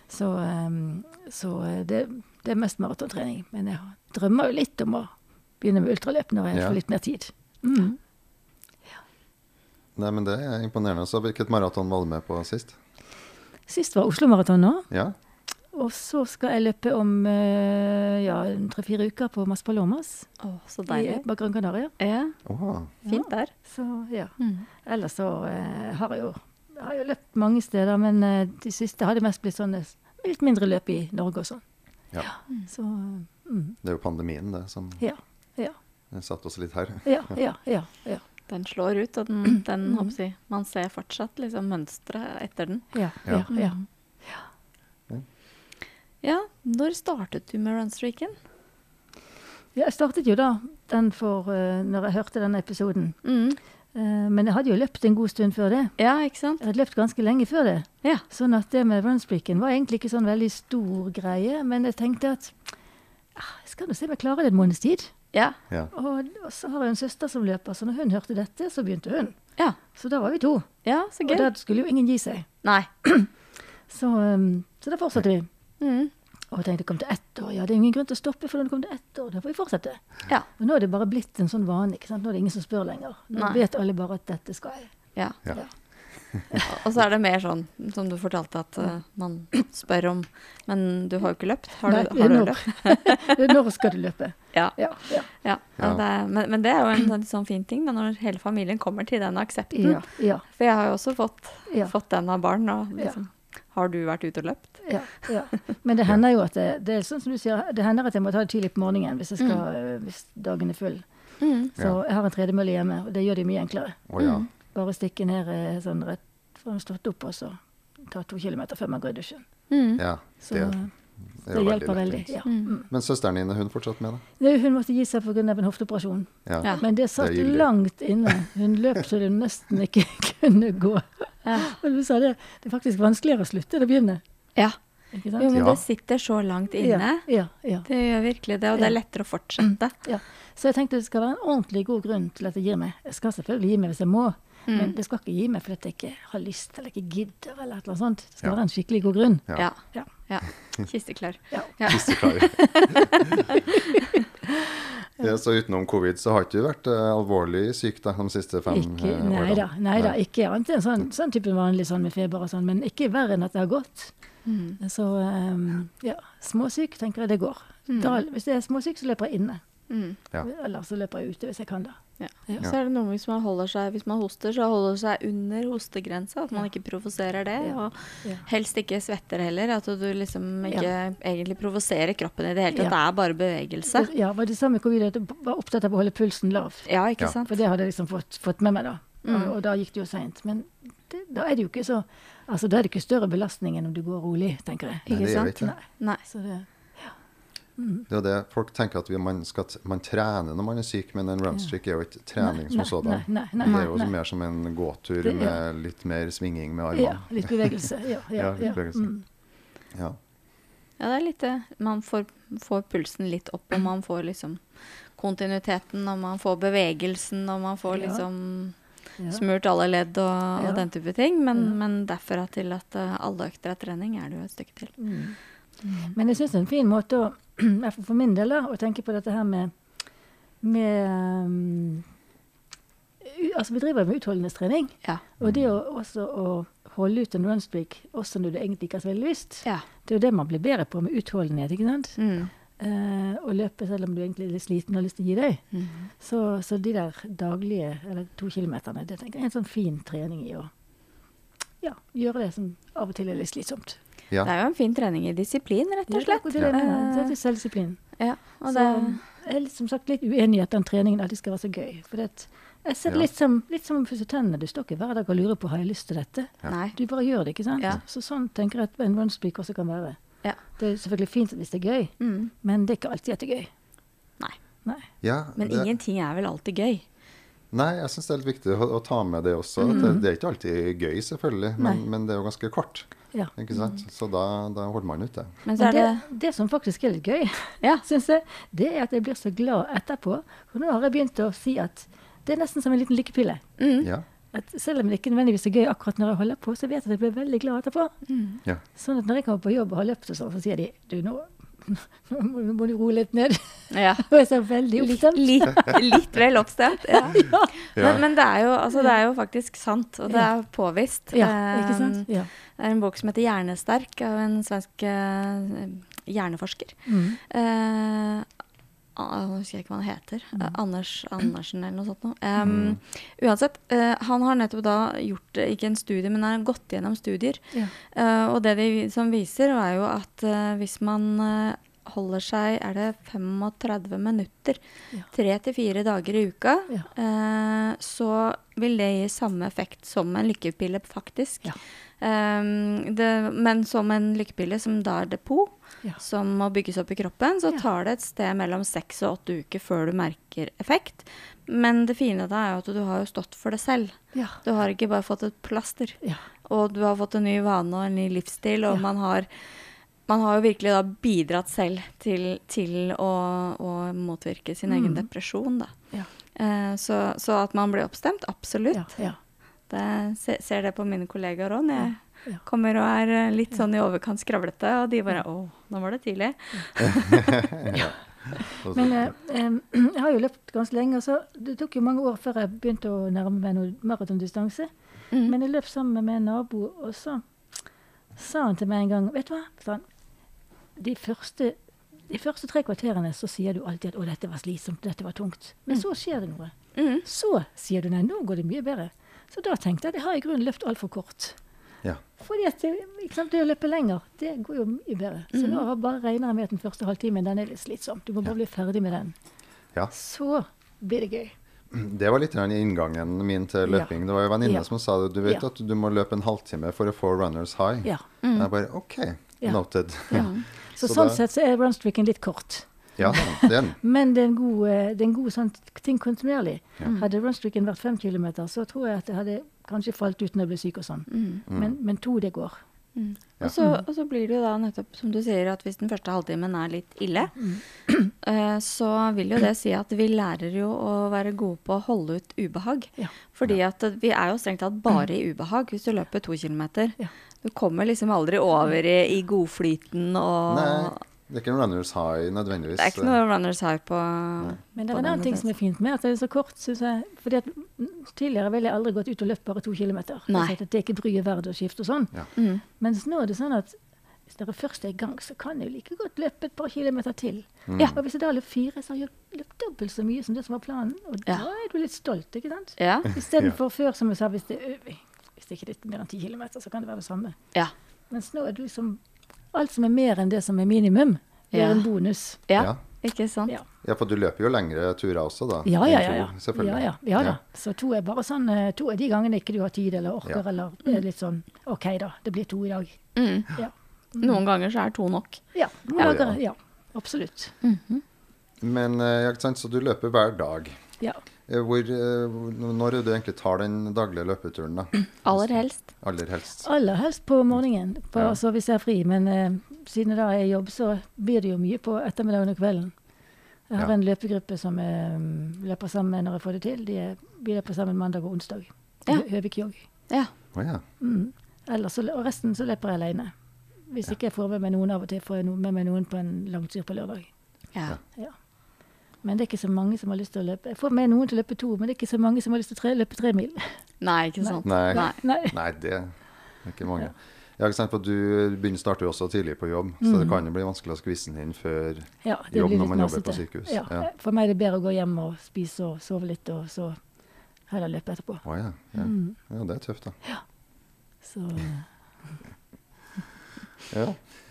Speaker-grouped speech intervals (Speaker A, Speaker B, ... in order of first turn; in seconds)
Speaker A: 0.1-8.0, 13.7-14.9, 15.7-20.3, 20.9-21.9, 23.1-31.6, 32.2-33.8, 35.0-35.8, 37.0-38.2, 42.9-44.4, 49.8-53.2, 53.9-56.0, 56.6-62.6, 63.4-65.1, 65.9-69.4, 69.9-70.7, 71.2-72.5, 73.0-73.3, 73.9-75.5, 76.5-80.0, 80.6-84.9, 91.9-95.3, 99.7-100.4, 104.8-111.1, 111.7-114.0, 114.7-119.5, 120.4-120.9, 121.5-122.9, 124.4-134.2, 135.1-135.5, 136.8-137.9, 140.1-150.1, 151.5-154.9, 158.7-164.1, 164.8-169.6, 170.4-172.7, 177.6-178.4, 182.7-183.0, 183.9-186.9, 187.5-197.1, 197.8-198.1, 202.4-204.1, 205.2-205.6, 206.9-209.2, 217.9-218.2, 220.6-220.8, 225.0-225.4, 225.9-229.7, 230.6-232.1, 233.2-242.2, 242.8-245.6, 246.2-250.7, 251.8-254.0, 256.1-258.0, 258.7-270.2, 270.8-273.7, 279.9-280.2, 285.8-293.6, 294.5-298.1, 298.9-306.0, 307.3-307.7, 311.3-312.5, 317.1-317.4, 364.9-365.3, 368.9-369.4, 378.6-384.9, 385.4-387.4, 388.4-390.1, 391.0-391.8, 392.3-396.7, 397.2-401.6, 402.4-409.4, 410.1-411.5, 413.9-414.1, 420.3-432.8, 455.0-462.3, 462.9-464.0, 464.5-477.6, 478.3-479.2, 479.7-482.6, 485.9-493.2, 493.7-494.6, 495.8-497.8, 506.8-513.1, 513.9-520.0, 521.2-523.5, 524.1-527.5, 529.4-533.9, 534.6-535.8, 540.2-540.6, 542.4-547.2, 547.9-548.6, 549.2-549.6, 551.4-552.1
Speaker B: 6.5-6.8, 10.0-12.8, 22.5-22.9, 33.8-35.0, 36.1-37.3, 114.1-114.5, 120.0-120.8, 121.4-122.3, 122.9-124.2, 126.5-127.7, 135.5-135.8, 151.9-153.5, 155.2-160.2, 195.1-195.7, 198.1-209.1, 235.4-235.7, 275.2-275.9, 277.7-285.6, 308.0-308.2, 322.6-323.0, 377.1-379.3, 411.9-421.4, 423.2-424.0, 431.7-431.9, 450.7-453.4, 467.9-468.2, 484.0-487.6, 496.2-496.6, 498.8-501.0, 501.7-506.9, 520.7-521.0, 534.8-536.3, 536.8-544.3, 548.6-550.4, 554.1-554.4
Speaker C: 20.4-21.2, 22.0-22.4, 23.1-23.5, 24.4-24.6, 38.5-43.7, 46.2-48.4, 53.2-53.6, 56.0-56.6, 70.8-71.5, 75.8-76.1, 86.5-93.5, 94.5-105.2, 111.4-111.7, 114.2-114.5, 119.7-120.0, 122.5-122.7, 131.5-131.7, 135.4-137.3, 137.9-140.0, 144.7-145.0, 149.6-152.2, 152.9-153.7, 164.5-164.8, 167.9-168.2, 169.9-170.2, 172.2-184.1, 186.9-187.6, 189.2-189.5, 195.1-196.2, 211.0-214.6, 215.2-218.8, 219.3-224.9, 242.2-242.5, 245.7-246.1, 254.4-257.3, 258.2-259.2, 266.7-267.0, 272.2-272.5, 275.6-277.0, 279.8-280.2, 285.6-286.2, 293.8-294.1, 298.3-298.6, 303.9-304.2, 305.0-318.5, 319.2-334.8, 335.3-359.5, 360.3-365.9, 366.6-369.2, 369.9-377.6, 397.0-397.2, 405.5-405.8, 418.4-418.7, 420.3-420.6, 431.3-431.6, 433.2-437.7, 438.4-451.2, 453.0-455.6, 460.5-460.8, 462.6-462.8, 473.0-473.3, 481.7-482.1, 482.7-483.7, 493.4-493.7, 494.4-495.6, 497.8-498.2, 505.4-506.1, 534.2-535.4